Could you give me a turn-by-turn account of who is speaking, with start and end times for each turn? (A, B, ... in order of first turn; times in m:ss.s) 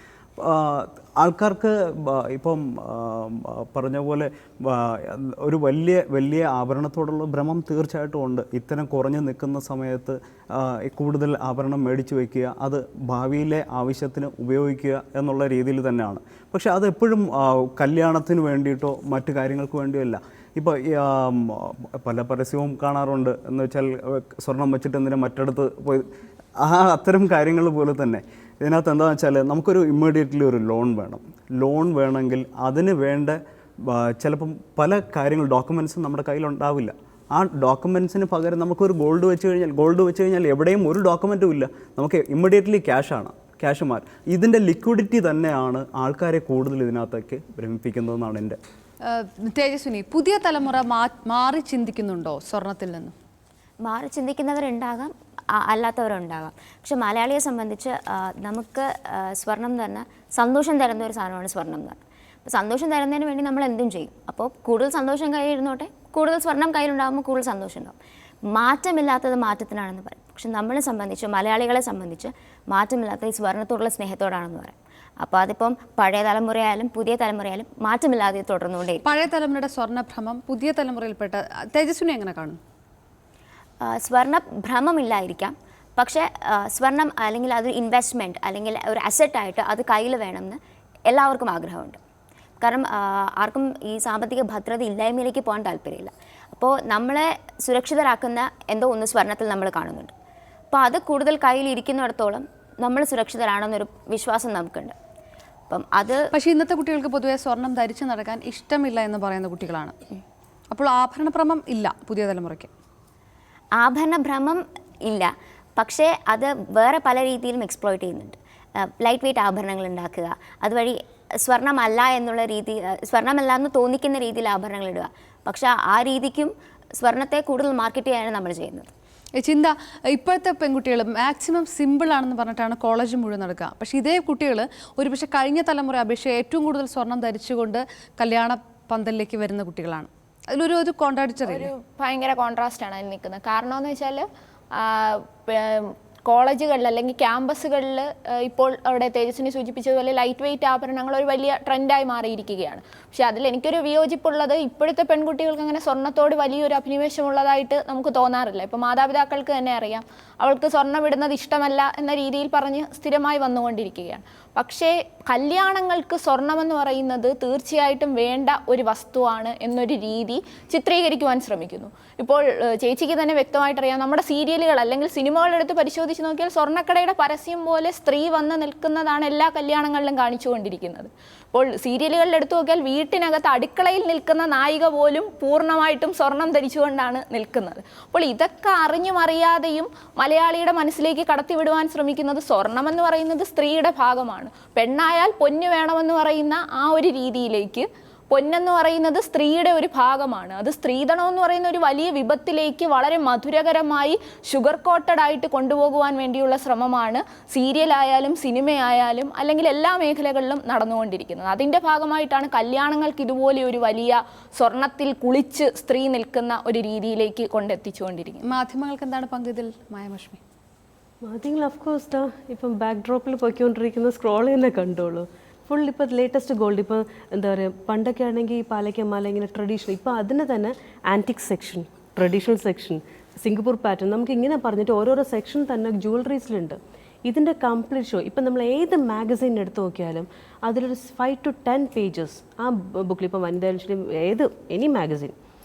0:00.4-0:26.1 A
0:26.6-0:48.6 A
0:49.1-0:53.2 B
0:53.8-1:08.0 C
1:08.5-1:19.0 C
1:19.0-1:22.6 B
1:23.8-1:32.0 C
1:32.6-1:40.1 C
1:40.7-1:45.0 C
1:45.7-1:46.2 C
1:46.3-1:50.0 B
1:50.7-1:52.7 B
1:53.8-2:08.9 C
2:09.4-2:21.7 B
2:21.4-3:38.4 D
3:38.4-3:40.4 B
3:41.2-4:05.3 E